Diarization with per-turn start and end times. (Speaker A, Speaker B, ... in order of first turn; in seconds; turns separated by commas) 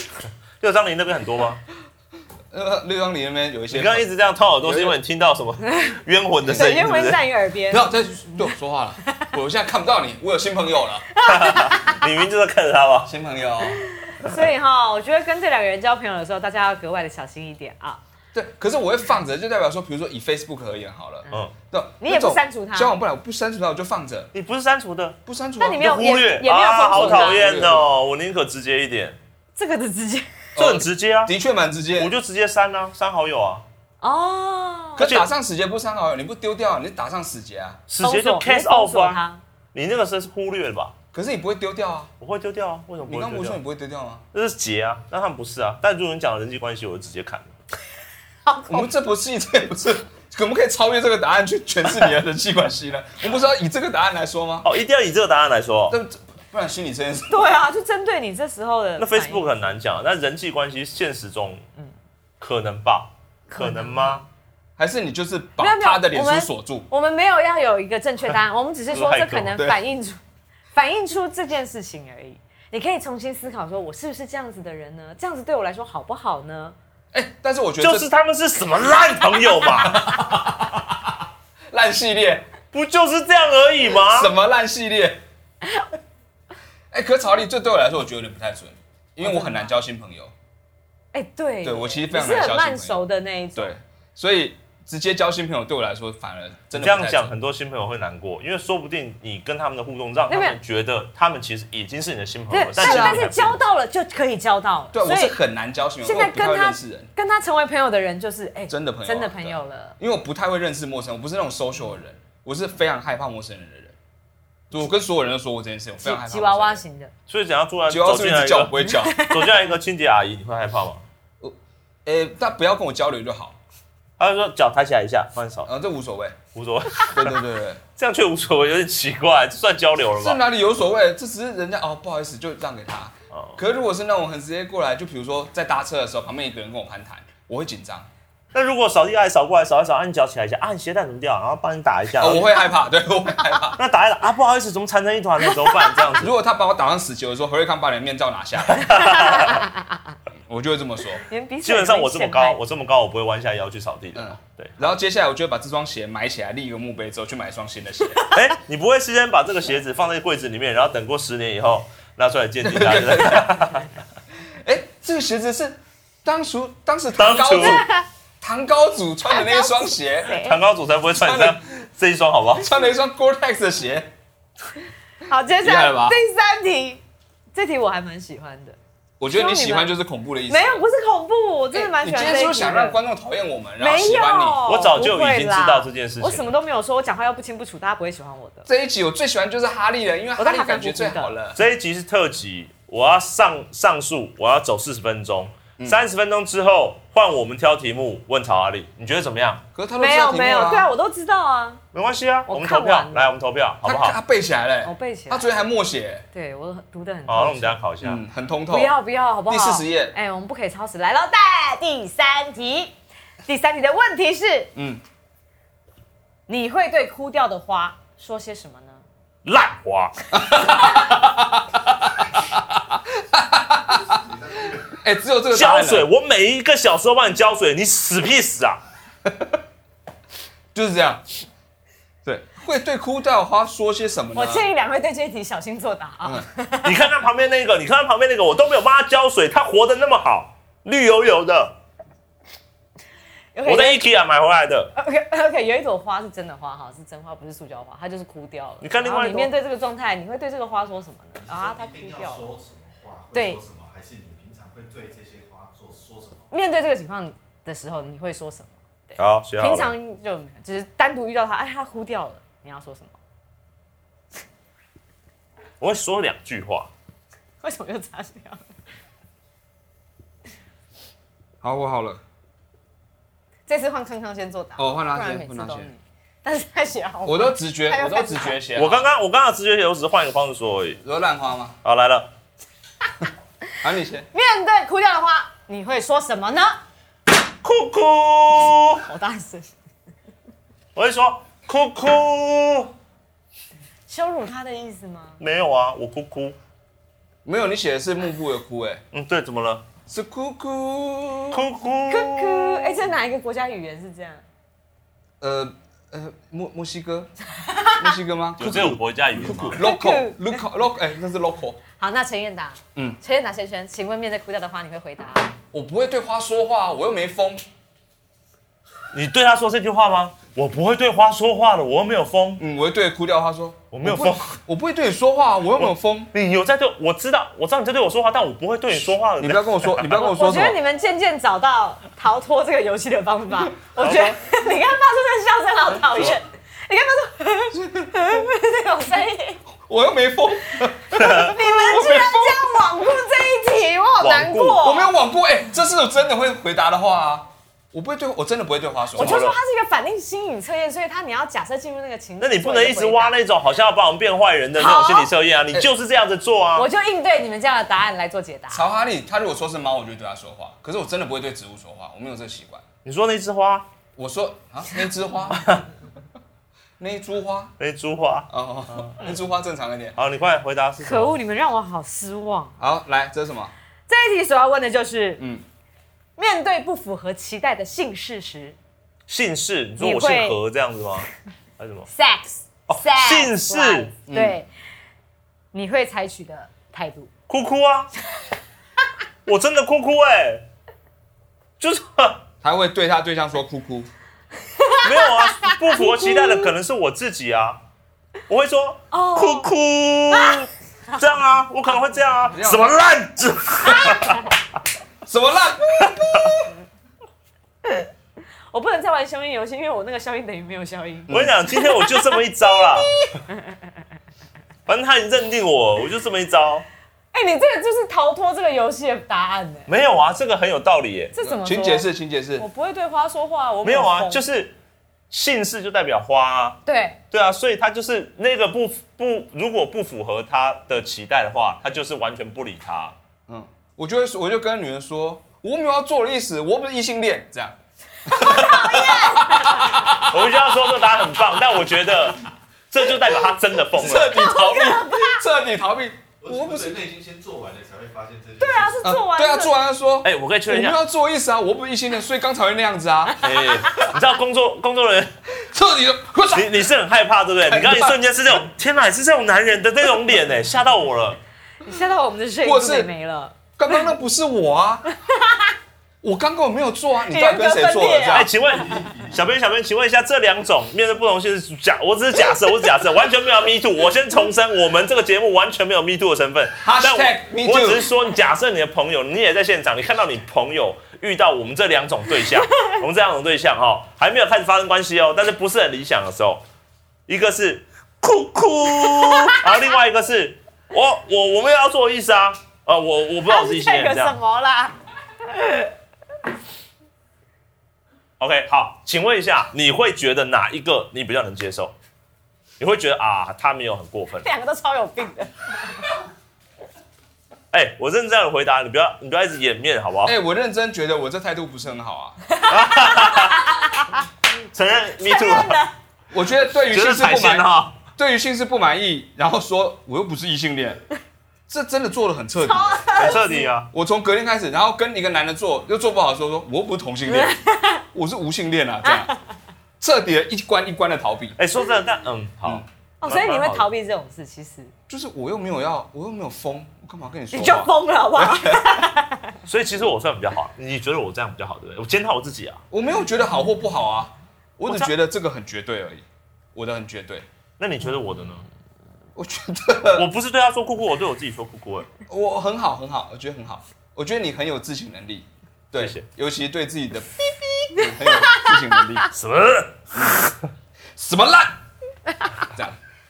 Speaker A: 0.6-1.6, Speaker B: 2.5-4.1, Speaker A: 3.7-7.2, Speaker B: 4.6-5.0, Speaker C: 5.7-5.9, Speaker B: 6.5-6.8, Speaker C: 6.5-8.4, Speaker B: 7.7-11.1, Speaker C: 11.1-12.1, Speaker A: 11.3-13.1, Speaker B: 13.1-14.3, Speaker C: 14.0-18.0, Speaker B: 18.3-24.3, Speaker C: 22.0-23.0, Speaker A: 24.3-25.2, Speaker B: 25.3-25.9, Speaker C: 25.6-27.5, Speaker A: 25.8-29.2, Speaker B: 26.9-27.9, Speaker C: 29.6-30.4, Speaker A: 30.6-31.3, Speaker B: 30.6-32.1, Speaker A: 32.0-33.6, Speaker C: 34.0-35.1, Speaker B: 35.0-37.8, Speaker A: 35.0-35.3, Speaker A: 37.9-39.2, Speaker C: 38.0-39.4, Speaker A: 39.7-41.0, Speaker B: 41.1-42.1, Speaker A: 42.2-43.6, Speaker B: 43.1-44.2, Speaker A: 44.3-47.5, Speaker C: 48.5-48.9, Speaker B: 48.7-54.7, Speaker A: 54.6-56.0, Speaker B: 55.9-57.5, Speaker C: 57.3-59.5, Speaker A: 59.0-61.6, Speaker A: 62.4-64.2, Speaker C: 63.5-64.2, Speaker B: 64.8-66.9, Speaker C: 65.6-70.2, Speaker A: 68.9-69.6, Speaker C: 70.7-76.8, Speaker B: 77.1-78.1, Speaker A: 77.8-80.0, Speaker B: 79.8-81.0, Speaker B: 81.7-82.5, Speaker A: 82.7-84.3, Speaker B: 84.0-85.2, Speaker B: 86.9-90.3, Speaker C: 89.2-89.7, Speaker C: 91.1-93.7, Speaker B: 91.6-93.0, Speaker B: 93.6-97.3, Speaker A: 96.7-103.6, Speaker C: 100.3-100.6, Speaker C: 102.5-105.4, Speaker B: 102.8-103.3, Speaker B: 104.9-107.1, Speaker C: 106.0-110.0, Speaker B: 108.7-114.0, Speaker B: 114.7-116.8, Speaker C: 116.0-117.1, Speaker A: 117.3-121.0, Speaker B: 117.9-119.2, Speaker C: 118.8-119.5, Speaker B: 121.4-123.6, Speaker A: 124.2-125.7, Speaker B: 125.7-126.4, Speaker A: 126.5-127.4, Speaker B: 127.0-127.8, Speaker A: 128.0-130.4, Speaker B: 130.2-138.1, Speaker A: 133.3-133.6, Speaker A: 138.5-142.5, Speaker B: 142.2-143.8, Speaker A: 143.8-146.3, Speaker B: 146.2-149.1, Speaker A: 148.7-149.7, Speaker C: 148.9-150.0, Speaker B: 150.5-151.2, Speaker C: 151.3-152.6, Speaker A: 151.6-154.8, Speaker B: 154.2-158.3, Speaker A: 158.3-163.9, Speaker B: 162.6-163.7, Speaker B: 164.6-167.9, Speaker A: 167.2-167.8, Speaker C: 167.6-168.1, Speaker B: 168.4-170.4, Speaker C: 169.3-170.6, Speaker A: 170.3-172.7, Speaker B: 171.1-171.6, Speaker B: 172.6-174.1, Speaker C: 175.3-177.0, Speaker B: 175.6-176.2, Speaker C: 177.5-178.8, Speaker B: 179.2-180.8, Speaker C: 179.3-179.9, Speaker C: 180.5-183.0, Speaker B: 181.7-184.7, Speaker C: 183.8-188.7, Speaker A: 184.7-186.5, Speaker B: 188.7-191.6, Speaker C: 190.4-191.3, Speaker A: 191.6-199.6, Speaker B: 199.7-200.9, Speaker C: 200.0-201.8, Speaker A: 201.9-204.2, Speaker C: 202.5-203.3, Speaker B: 203.8-206.2, Speaker C: 204.8-205.5, Speaker C: 206.3-207.8, Speaker A: 207.3-208.2, Speaker B: 208.0-208.9, Speaker C: 208.7-212.9, Speaker B: 209.5-210.1, Speaker C: 213.5-214.7, Speaker B: 214.8-215.0, Speaker C: 216.5-219.0, Speaker A: 219.4-220.2, Speaker B: 220.3-221.8, Speaker B: 222.4-224.2, Speaker D: 223.9-224.9, Speaker B: 224.9-226.1, Speaker A: 225.5-228.8, Speaker B: 229.2-229.6, Speaker B: 230.7-231.2, Speaker B: 232.2-234.7, Speaker C: 234.3-237.0, Speaker A: 236.8-241.8, Speaker C: 243.6-244.0, Speaker A: 243.7-244.9, Speaker C: 245.0-252.5, Speaker A: 248.8-249.5, Speaker D: 251.4-256.5, Speaker C: 253.3-253.6, Speaker C: 256.5-263.1, Speaker A: 259.2-259.9, Speaker A: 265.8-266.9, Speaker C: 267.6-268.6, Speaker B: 271.6-272.2, Speaker C: 273.7-278.6, Speaker B: 274.8-275.9, Speaker B: 277.3-279.1, Speaker A: 278.8-281.0, Speaker B: 281.0-281.8, Speaker A: 281.8-282.3, Speaker B: 283.8-284.3, Speaker C: 284.3-286.8, Speaker A: 287.6-289.0, Speaker C: 289.0-289.7, Speaker A: 290.9-292.9, Speaker C: 294.1-295.4, Speaker A: 295.4-296.6, Speaker B: 297.4-299.0, Speaker A: 299.1-299.9, Speaker B: 300.1-301.6, Speaker A: 301.5-303.0, Speaker C: 302.1-304.4, Speaker B: 305.4-307.3, Speaker C: 307.6-308.2, Speaker B: 308.0-311.8, Speaker A: 308.6-309.8, Speaker C: 309.8-310.6, Speaker C: 312.0-315.5, Speaker B: 315.7-317.6, Speaker A: 319.1-322.6, Speaker B: 322.6-326.3, Speaker A: 323.9-324.6, Speaker A: 325.8-330.2, Speaker B: 329.4-330.8, Speaker C: 330.1-339.6, Speaker A: 334.0-334.4, Speaker B: 337.7-338.4, Speaker B: 339.9-342.8, Speaker C: 341.1-345.1, Speaker A: 341.1-341.6, Speaker A: 344.2-344.8, Speaker B: 344.8-349.4, Speaker A: 349.2-349.6, Speaker C: 349.2-353.4, Speaker A: 352.4-356.9, Speaker C: 354.8-355.3, Speaker C: 356.8-358.9, Speaker B: 358.7-362.9, Speaker A: 363.1-363.9, Speaker B: 364.2-365.7, Speaker B: 367.0-367.7, Speaker A: 367.8-368.5, Speaker B: 368.5-370.2, Speaker A: 370.2-371.4, Speaker C: 371.0-372.8, Speaker B: 372.8-373.7, Speaker C: 374.1-375.4, Speaker C: 376.4-378.8, Speaker A: 379.3-381.3, Speaker C: 380.0-380.6, Speaker A: 381.8-382.1, Speaker C: 382.1-384.7, Speaker A: 382.9-384.1, Speaker B: 384.3-384.6, Speaker C: 385.7-387.3, Speaker A: 387.5-388.1, Speaker A: 389.5-390.6, Speaker A: 391.8-392.4, Speaker B: 392.6-394.1, Speaker C: 394.7-396.7, Speaker A: 395.0-397.8, Speaker A: 398.5-404.6, Speaker C: 399.1-399.7, Speaker C: 400.3-400.7, Speaker B: 402.5-402.9, Speaker B: 403.9-404.2, Speaker C: 404.0-404.3, Speaker B: 405.2-406.7, Speaker A: 406.0-406.6, Speaker C: 408.7-413.6, Speaker B: 411.3-411.5, Speaker A: 411.3-413.2, Speaker A: 414.9-416.9, Speaker C: 417.3-419.9, Speaker A: 419.9-421.3, Speaker C: 421.3-424.4, Speaker B: 421.4-422.7, Speaker A: 423.8-424.8, Speaker A: 425.3-426.8, Speaker C: 426.9-427.2, Speaker A: 427.3-433.1, Speaker B: 433.5-440.8, Speaker C: 438.3-440.1, Speaker A: 440.3-444.5, Speaker B: 443.9-447.1, Speaker C: 444.3-445.4, Speaker D: 446.4-449.0, Speaker C: 448.6-449.7, Speaker B: 449.0-454.1, Speaker A: 450.2-451.0, Speaker A: 453.4-455.3, Speaker B: 455.6-456.9, Speaker A: 456.5-461.4, Speaker B: 457.7-458.2, Speaker C: 461.8-464.1, Speaker B: 462.6-463.1, Speaker B: 463.8-465.1, Speaker C: 465.1-465.7, Speaker B: 466.2-468.5, Speaker C: 467.3-468.5, Speaker A: 468.3-486.6, Speaker D: 468.7-469.4, Speaker B: 476.8-478.1, Speaker A: 487.3-494.4, Speaker C: 489.3-489.6, Speaker C: 493.5-495.9, Speaker A: 498.4-501.9, Speaker A: 502.8-504.5, Speaker C: 504.4-506.1, Speaker A: 507.7-510.4, Speaker B: 510.3-512.4, Speaker C: 512.5-514.2, Speaker A: 512.7-513.7, Speaker A: 514.7-515.8, Speaker C: 515.2-515.9, Speaker B: 516.3-521.0, Speaker A: 516.9-518.0, Speaker B: 521.7-523.1, Speaker C: 522.6-523.7, Speaker A: 523.2-523.9, Speaker B: 523.9-527.5, Speaker C: 527.3-528.0, Speaker B: 528.1-529.3, Speaker C: 529.0-529.4, Speaker B: 530.0-531.6, Speaker A: 531.6-533.9, Speaker C: 533.2-534.9, Speaker B: 535.1-539.0, Speaker C: 537.5-539.5, Speaker A: 539.7-542.8, Speaker B: 542.9-547.5, Speaker A: 547.8-548.7, Speaker B: 549.4-550.3, Speaker A: 550.1-552.1, Speaker B: 552.3-559.3, Speaker A: 556.0-556.2, Speaker C: 558.0-559.0, Speaker A: 559.3-560.6, Speaker B: 561.2-561.8, Speaker B: 562.6-563.0